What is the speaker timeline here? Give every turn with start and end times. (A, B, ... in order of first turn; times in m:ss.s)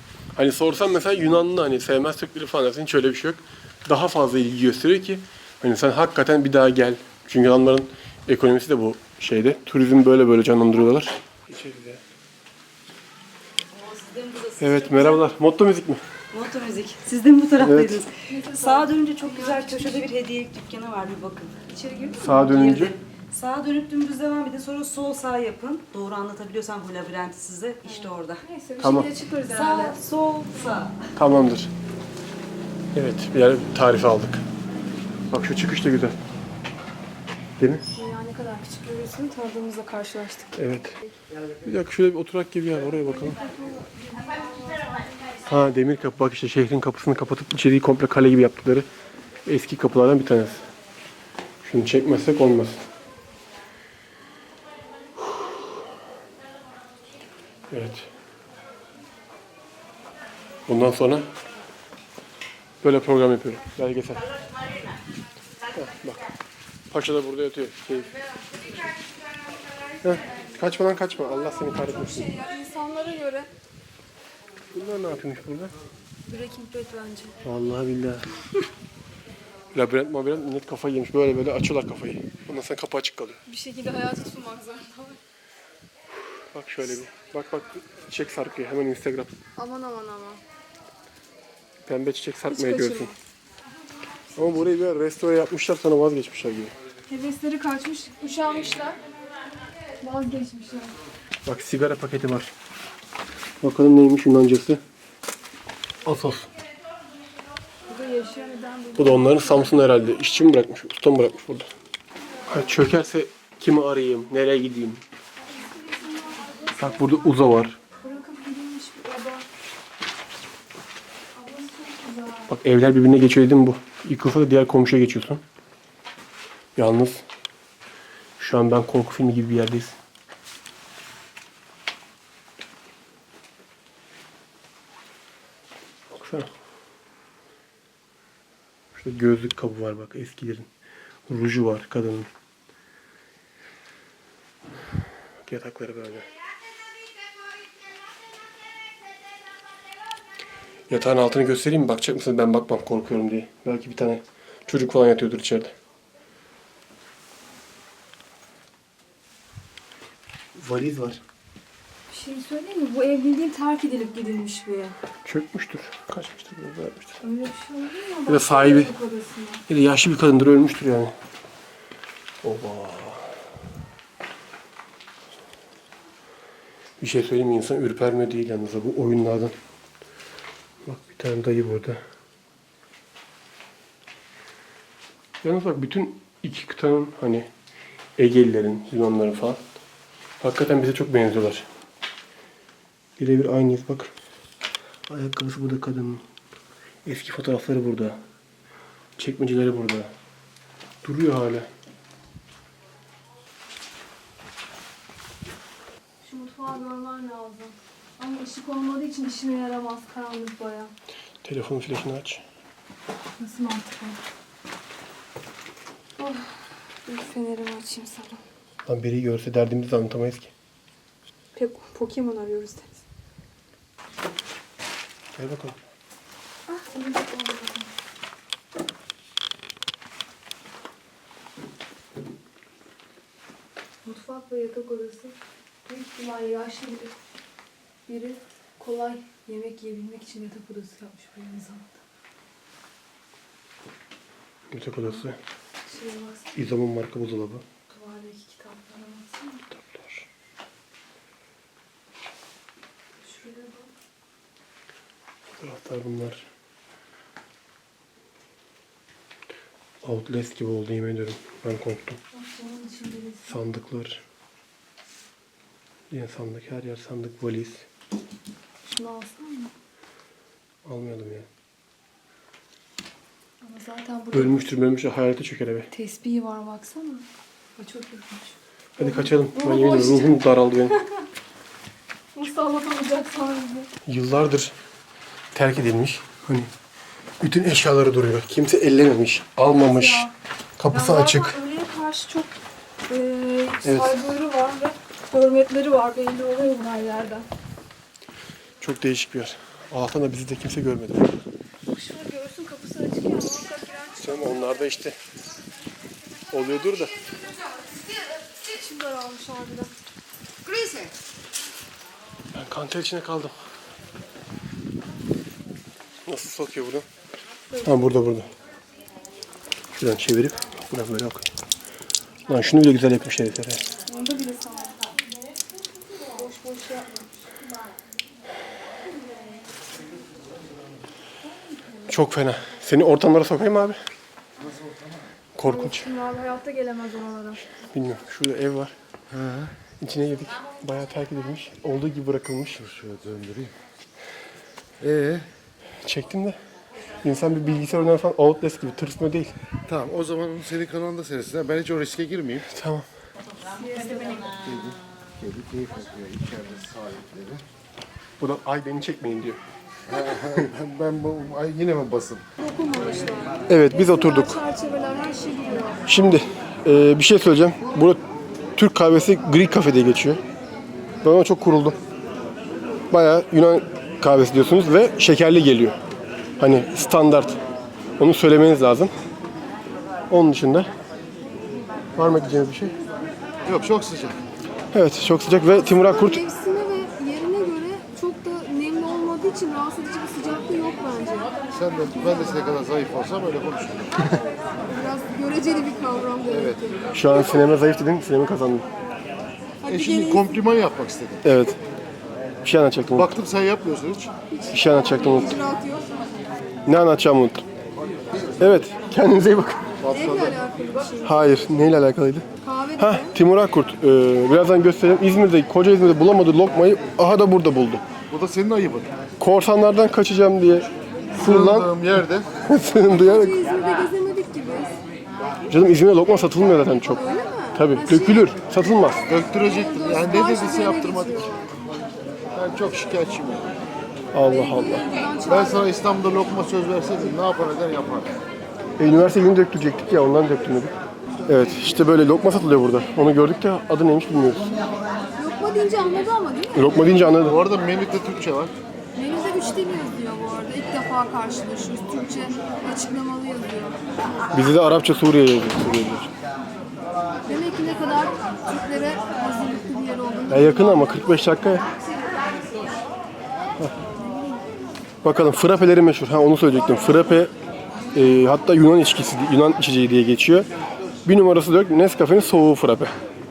0:00.4-0:12.0 A
0:13.7-0:15.2 B
0:14.6-0:16.0 A
0:16.3-0:28.4 B
0:17.6-0:18.0 A
0:18.2-0:20.0 C
0:21.7-0:22.1 C
0:22.1-0:22.9 A
0:27.8-0:30.0 C
0:28.8-0:29.1 A
0:29.4-0:31.1 B
0:31.2-0:31.7 A
0:32.9-0:34.4 A
0:35.3-0:36.2 A
0:37.6-0:37.8 A
0:37.9-0:40.6 C
0:40.6-0:41.0 A
0:41.6-0:43.4 A
0:43.3-0:45.2 C
0:45.4-0:48.9 A
0:49.4-0:50.6 A
0:51.6-0:52.8 A
0:57.7-0:58.1 A
1:00.7-1:01.3 A
1:02.8-1:04.2 A
1:05.7-1:06.2 A
1:06.9-1:08.1 A
1:10.0-1:12.3 A
1:11.7-1:13.5 C
1:14.7-1:15.7 A
1:16.2-1:17.4 C
1:17.4-1:18.3 A
1:19.7-1:23.4 A
1:23.4-1:25.2 C
1:26.5-1:29.3 A
1:29.6-1:30.4 C
1:31.8-1:33.1 A
1:32.4-1:33.2 C
1:34.3-1:36.7 A
1:37.1-1:39.0 C
1:40.0-1:40.9 C
1:41.4-1:42.5 A
1:43.6-1:44.8 A
1:46.0-1:46.5 A
1:47.9-1:49.9 C
1:49.0-1:51.7 A
1:52.5-1:55.0 A
1:55.4-1:57.5 C
1:56.8-1:57.8 A
1:58.0-1:59.4 C
2:01.3-2:02.5 C
2:02.5-2:05.4 A
2:06.8-2:07.2 A
2:08.4-2:10.0 A
2:16.1-2:16.5 A
2:18.9-2:20.7 A
2:21.3-2:22.3 A
2:25.4-2:26.3 A
2:30.9-2:35.7 A
2:40.5-2:41.2 A
2:42.1-2:45.0 C
2:45.2-2:47.1 A
2:47.2-2:49.6 C
2:48.2-2:48.9 A
2:49.7-2:51.1 A
2:52.4-2:53.3 A
2:57.0-2:59.5 A
3:00.8-3:02.0 A
3:05.4-3:07.5 A
3:08.2-3:09.6 A
3:10.4-3:11.7 A
3:13.2-3:14.1 A
3:15.1-3:16.2 A
3:17.0-3:18.2 A
3:19.2-3:20.1 A
3:21.0-3:21.7 A
3:26.2-3:30.9 C
3:31.4-3:32.4 A
3:33.4-3:34.2 C
3:36.2-3:38.4 C
3:38.8-3:40.5 A
3:41.6-3:43.0 C
3:45.4-3:45.8 A
3:46.7-3:47.9 C
3:54.0-3:55.3 C
3:55.8-3:57.1 C
3:58.1-4:02.0 C
4:04.7-4:05.4 A
4:05.9-4:06.6 C
4:06.5-4:07.6 A
4:07.9-4:09.6 C
4:09.7-4:10.2 A
4:13.2-4:13.9 C
4:15.6-4:16.5 A
4:20.0-4:22.2 A
4:22.3-4:23.6 C
4:23.4-4:24.2 A
4:26.1-4:27.8 A
4:28.8-4:29.7 C
4:30.8-4:31.5 A
4:33.6-4:34.7 C
4:34.3-4:35.9 A
4:35.9-4:37.2 C
4:37.8-4:40.4 C
4:39.0-4:41.0 A
4:41.0-4:41.2 C
4:42.3-4:43.9 C
4:44.0-4:44.7 A
4:45.5-4:46.7 A
4:47.4-4:50.3 A
4:49.6-4:50.3 C
4:50.8-4:51.6 A
4:50.9-4:52.5 C
4:53.1-4:57.4 C
4:53.8-4:54.1 A
4:58.8-5:01.4 A
5:01.9-5:04.8 C
5:04.2-5:05.2 A
5:06.5-5:07.2 A
5:07.6-5:09.9 C
5:10.6-5:11.1 C
5:12.5-5:13.6 A
5:16.2-5:17.0 A
5:17.8-5:18.5 A
5:20.0-5:21.5 A
5:22.5-5:23.8 A
5:24.1-5:25.1 C
5:26.3-5:27.4 C
5:32.1-5:34.0 A
5:34.6-5:35.2 D
5:35.6-5:36.1 A
5:35.6-5:37.6 C
5:37.9-5:38.9 A
5:39.3-5:39.7 D
5:40.0-5:42.8 A
5:42.8-5:43.7 D
5:45.0-5:45.5 D
5:46.0-5:46.6 A
5:47.2-5:49.5 A
5:49.9-5:52.6 D
5:52.6-5:53.1 A
5:53.7-5:54.6 C
5:54.6-5:57.6 D
5:58.4-5:59.6 A
6:00.1-6:02.4 D
6:02.6-6:06.0 C
6:03.7-6:04.6 A
6:06.1-6:08.2 A
6:08.8-6:10.4 A
6:11.2-6:12.0 A
6:13.1-6:16.0 A
6:16.6-6:17.6 A
6:18.2-6:19.1 A
6:20.3-6:20.9 A
6:22.2-6:22.9 A
6:23.6-6:24.4 D
6:24.9-6:26.4 A
6:25.7-6:31.6 C
6:31.7-6:34.1 D
6:32.2-6:32.5 C
6:34.8-6:37.7 C
6:36.5-6:36.8 D
6:37.1-6:38.9 A
6:39.8-6:40.5 C
6:39.8-6:41.4 D
6:41.4-6:41.8 A
6:42.6-6:43.3 A
6:43.1-6:44.3 D
6:44.5-6:46.2 C
6:44.7-6:45.5 A
6:46.8-6:47.6 A
6:48.6-6:49.8 A
6:50.0-6:50.6 D
6:50.1-6:51.4 C
6:51.2-6:52.5 A
6:52.6-6:53.3 C
6:53.0-6:58.0 A
6:58.3-6:59.1 D
6:59.4-7:01.9 A
7:01.3-7:02.5 D
7:02.6-7:03.6 A
7:03.0-7:04.9 C
7:05.7-7:07.2 A
7:07.0-7:08.5 C
7:07.7-7:09.2 A
7:09.3-7:11.5 D
7:09.3-7:11.7 C
7:12.5-7:13.7 D
7:14.3-7:15.0 A
7:14.4-7:15.9 C
7:15.4-7:18.3 D
7:19.0-7:20.9 A
7:21.4-7:24.7 A
7:25.4-7:27.2 C
7:26.7-7:27.6 A
7:27.4-7:28.7 D
7:29.1-7:34.0 C
7:34.5-7:36.3 A
7:37.4-7:41.2 C
7:40.5-7:41.8 A
7:44.2-7:44.6 C
7:45.2-7:47.5 A
7:48.1-7:50.7 A
7:51.2-7:53.1 A